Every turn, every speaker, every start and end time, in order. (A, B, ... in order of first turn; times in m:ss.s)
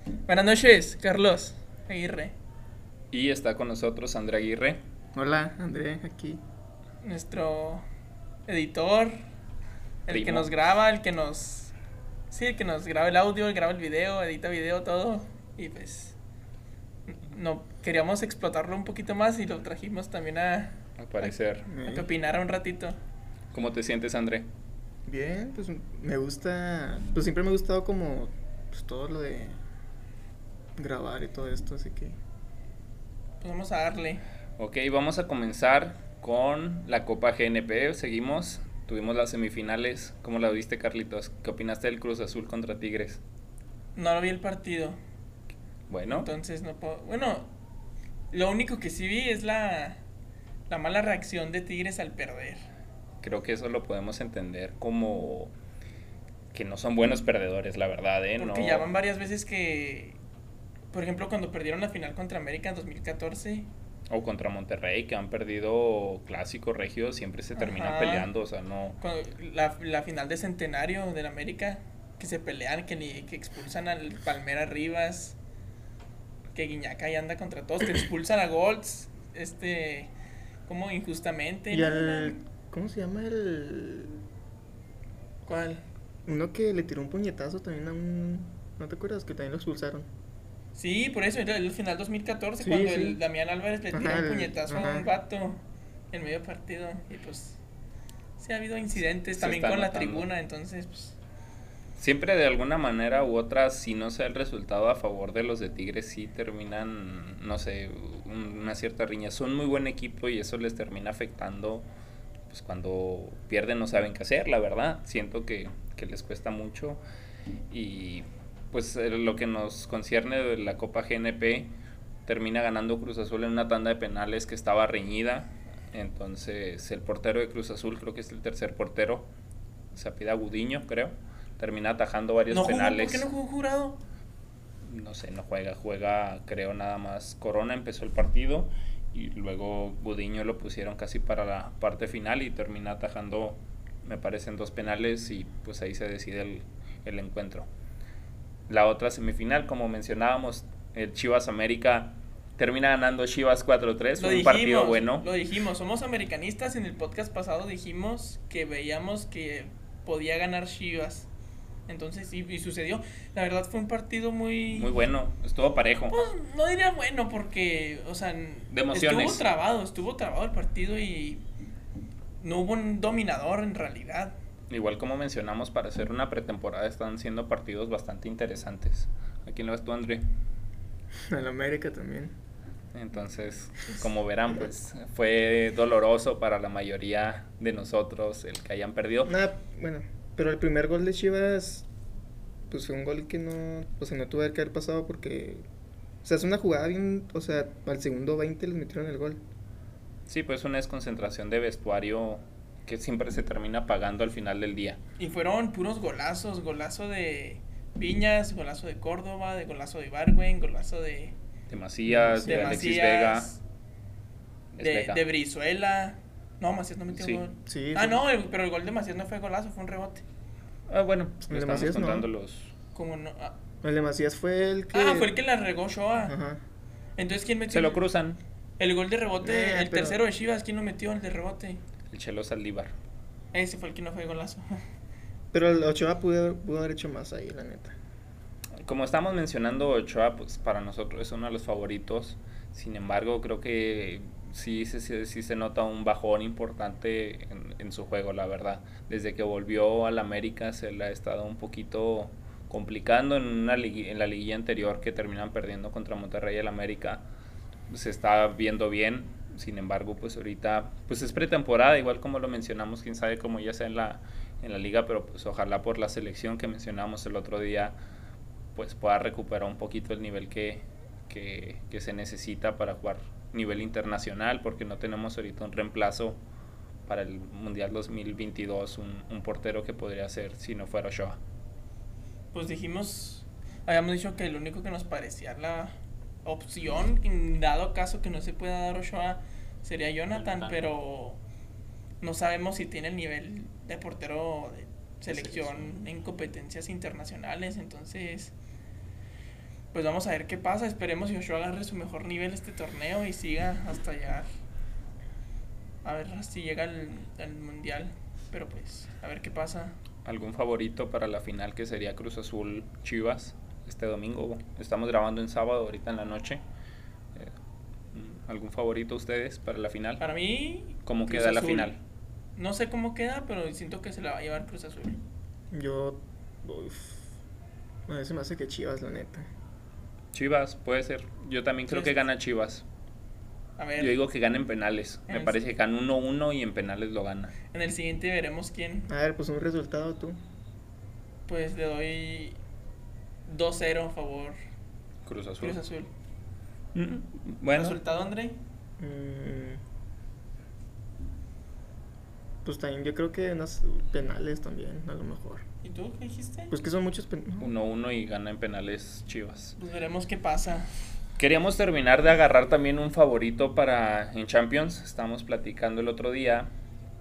0:00.3-0:02.3 A
0:03.1-0:04.8 B
0:05.1-0:06.4 C
0:07.0-0:07.8 A
0:08.5-0:09.2 A
0:10.1-0:11.7 A
0:10.1-0:10.6 B
0:12.3-0:16.2 A
0:17.1-0:21.3 A
0:21.0-0:21.7 B
0:21.7-0:22.1 C
0:21.8-0:23.0 A
0:23.5-0:24.5 B
0:25.0-0:29.6 C
0:30.8-0:32.2 C
0:33.4-0:34.2 A
0:34.6-0:43.2 B
0:44.0-0:45.0 A
0:45.9-0:46.3 B
0:46.1-0:47.5 A
0:48.3-0:50.0 A
0:50.7-0:52.6 A
0:53.2-0:55.5 B
0:56.5-0:58.9 B
0:58.4-1:00.2 A
1:00.9-1:03.7 A
1:04.1-1:09.0 B
1:07.6-1:08.3 A
1:09.0-1:15.4 A
1:16.5-1:20.1 A
1:20.6-1:22.4 A
1:21.7-1:24.2 C
1:25.4-1:25.8 A
1:26.3-1:30.1 C
1:30.7-1:37.6 A
1:32.6-1:33.2 C
1:33.9-1:35.1 C
1:38.4-1:41.2 A
1:39.3-1:40.3 B
1:42.0-1:51.8 B
1:52.5-1:57.0 B
1:57.7-2:01.7 B
2:02.2-2:09.3 B
2:09.9-2:13.2 B
2:12.5-2:14.0 A
2:14.8-2:27.7 B
2:28.7-2:35.2 B
2:34.2-2:41.3 A
2:41.9-2:45.0 A
2:44.7-2:46.3 B
2:46.1-2:51.4 A
2:48.7-2:49.4 B
2:52.4-2:54.3 A
2:54.7-3:00.3 B
3:01.1-3:02.3 C
3:02.9-3:09.3 B
3:09.2-3:11.9 C
3:12.7-3:15.6 C
3:16.2-3:19.4 C
3:20.3-3:25.0 B
3:25.2-3:31.3 A
3:31.7-3:33.5 B
3:32.1-3:32.8 C
3:32.4-3:33.6 A
3:34.7-3:35.2 B
3:34.8-3:40.2 A
3:37.1-3:37.4 B
3:37.6-3:38.2 C
3:40.9-3:42.7 B
3:41.5-3:42.3 C
3:42.9-3:43.6 A
3:43.8-3:45.3 C
3:44.9-3:46.3 A
3:46.2-3:46.6 C
3:47.2-3:48.0 A
3:47.7-3:48.4 B
3:48.8-3:51.8 A
3:49.4-3:50.2 C
3:52.1-3:52.9 B
3:53.5-3:54.8 A
3:55.5-3:57.9 C
3:58.8-4:17.3 B
4:17.9-4:27.9 B
4:28.7-4:36.4 B
4:37.1-4:41.4 B
4:42.5-4:45.9 A
4:46.4-4:51.4 A
4:50.3-4:50.8 B
4:52.2-4:58.5 A
4:55.3-4:55.9 B
4:59.9-5:04.4 A
5:06.0-5:10.0 A
5:10.2-5:16.6 B
5:18.1-5:20.2 B
5:20.2-5:21.9 A
5:21.0-5:22.0 B
5:22.6-5:25.2 A
5:25.7-5:27.2 C
5:28.1-5:29.5 C
5:30.3-5:32.8 B
5:31.9-5:32.2 A
5:33.8-5:34.2 A
5:34.0-5:37.5 B
5:35.3-5:35.6 A
5:37.7-5:39.1 A
5:39.1-5:40.4 C
5:41.5-5:42.6 A
5:43.5-5:44.6 A
5:45.2-5:45.8 B
5:45.6-5:46.1 A
5:46.9-5:48.0 B
5:47.7-5:48.6 A
5:49.0-5:49.8 C
5:52.6-5:55.6 C
5:55.8-5:56.7 A
5:56.7-5:57.7 C
5:57.6-5:59.8 B
5:59.8-6:00.9 A
6:01.4-6:06.7 B